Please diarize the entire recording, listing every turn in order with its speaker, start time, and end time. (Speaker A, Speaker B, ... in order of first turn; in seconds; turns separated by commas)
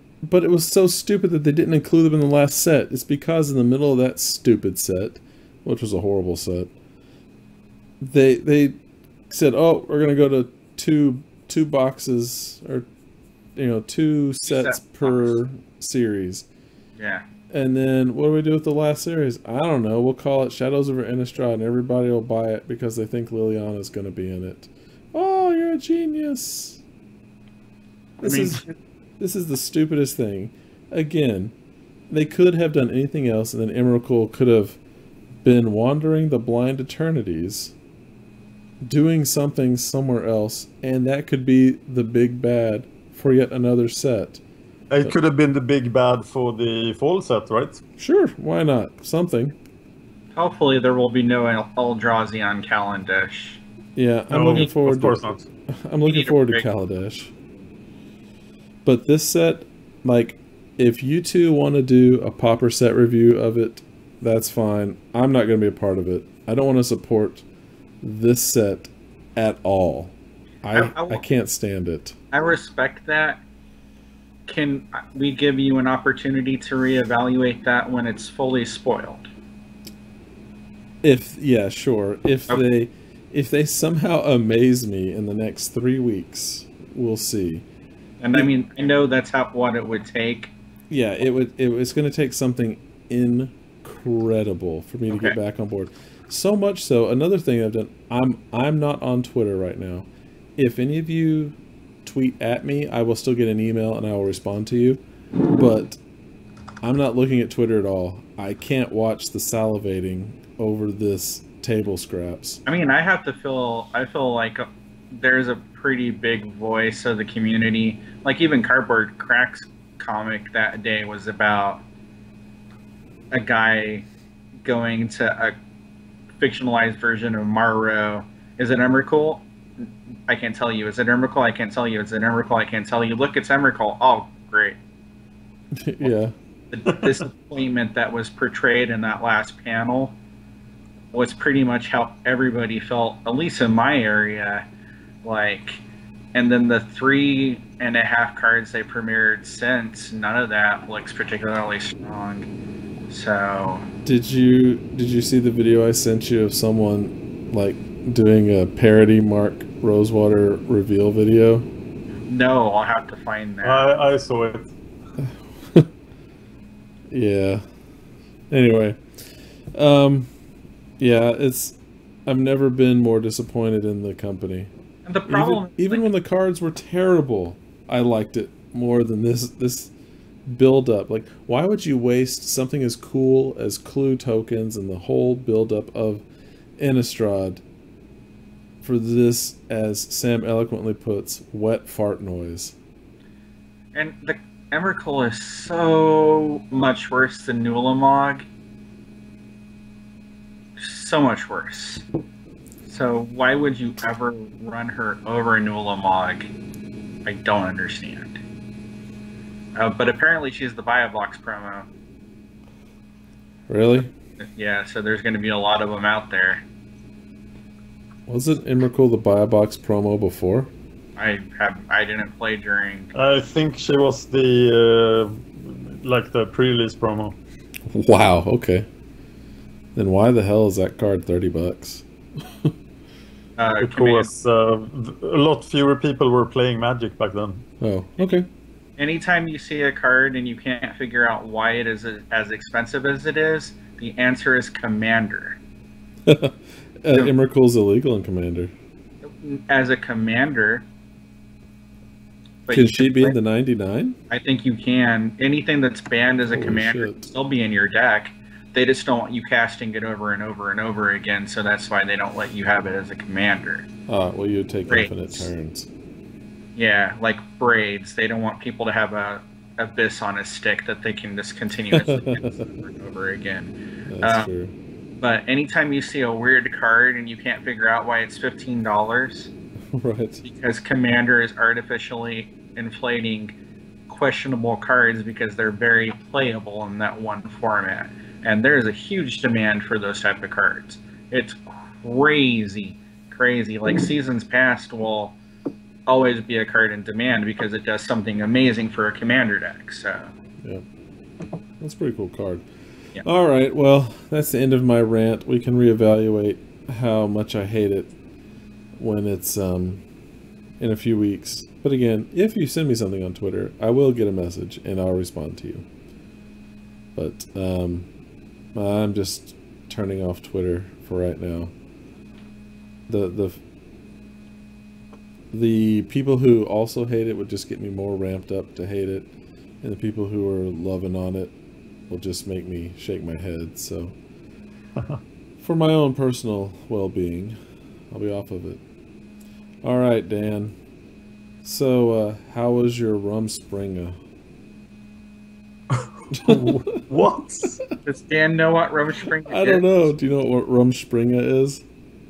Speaker A: 0.2-6.7, Speaker A: 8.0-8.8, Speaker A: 9.3-12.9, Speaker A: 13.6-16.4, Speaker B: 14.4-15.4, Speaker B: 17.0-17.2, Speaker A: 17.5-26.8, Speaker A: 28.2-28.6, Speaker B: 28.2-28.7, Speaker A: 29.2-31.5, Speaker A: 32.1-34.8, Speaker A: 35.4-37.7, Speaker A: 38.8-44.4, Speaker C: 44.9-47.8, Speaker A: 48.0-49.5, Speaker B: 50.4-53.6, Speaker A: 54.0-57.3, Speaker C: 54.3-55.4, Speaker B: 56.0-56.6, Speaker A: 58.8-67.4, Speaker A: 68.0-72.2, Speaker B: 70.7-71.2, Speaker B: 72.3-73.4, Speaker B: 74.5-79.3, Speaker A: 81.0-87.6, Speaker B: 88.2-90.5, Speaker A: 90.9-105.0, Speaker A: 105.5-106.0, Speaker A: 106.8-112.6, Speaker B: 112.7-121.8, Speaker B: 123.3-124.1, Speaker B: 124.6-125.5, Speaker B: 126.4-134.8, Speaker A: 135.8-136.3, Speaker B: 136.7-140.2, Speaker B: 141.1-144.6, Speaker B: 145.2-145.8, Speaker B: 146.3-152.5, Speaker B: 153.1-153.8, Speaker A: 154.0-161.7, Speaker B: 162.3-163.9, Speaker C: 163.6-164.7, Speaker A: 165.2-165.9, Speaker A: 167.1-167.6, Speaker A: 168.5-169.0, Speaker A: 169.7-170.3, Speaker A: 171.0-174.7, Speaker B: 175.0-176.1, Speaker A: 175.3-179.9, Speaker A: 180.4-186.2, Speaker A: 186.8-187.6, Speaker A: 188.8-192.7, Speaker B: 193.9-198.4, Speaker B: 200.8-202.1, Speaker B: 202.8-206.5, Speaker B: 207.2-208.4, Speaker B: 209.7-211.9, Speaker A: 213.7-214.1, Speaker B: 214.4-216.6, Speaker A: 218.3-220.7, Speaker B: 221.2-223.1, Speaker C: 223.1-227.4, Speaker A: 227.9-228.9, Speaker A: 229.9-232.0, Speaker B: 233.6-234.3, Speaker C: 233.8-237.6, Speaker A: 237.8-238.5, Speaker B: 239.0-245.6, Speaker A: 246.3-248.7, Speaker B: 249.2-250.8, Speaker B: 252.7-253.4, Speaker A: 252.7-254.2, Speaker B: 254.3-263.9, Speaker A: 256.5-257.3, Speaker A: 264.1-265.9, Speaker B: 264.9-265.5, Speaker B: 266.8-274.5, Speaker A: 271.9-272.4, Speaker A: 274.1-274.7, Speaker B: 275.2-279.5, Speaker A: 279.9-280.4, Speaker B: 280.4-283.5, Speaker B: 284.1-295.4, Speaker B: 296.1-300.3, Speaker A: 301.8-302.6, Speaker A: 303.2-308.1, Speaker A: 309.0-310.0, Speaker A: 310.8-315.9, Speaker A: 317.1-318.1, Speaker A: 318.7-321.7, Speaker A: 323.1-323.6, Speaker A: 325.5-329.3, Speaker A: 329.8-331.5, Speaker A: 332.1-334.1, Speaker A: 335.6-337.6, Speaker A: 338.1-338.8, Speaker A: 339.8-340.8, Speaker A: 341.6-344.2, Speaker C: 345.9-347.8, Speaker A: 346.3-347.1, Speaker B: 348.0-349.8, Speaker A: 349.4-351.8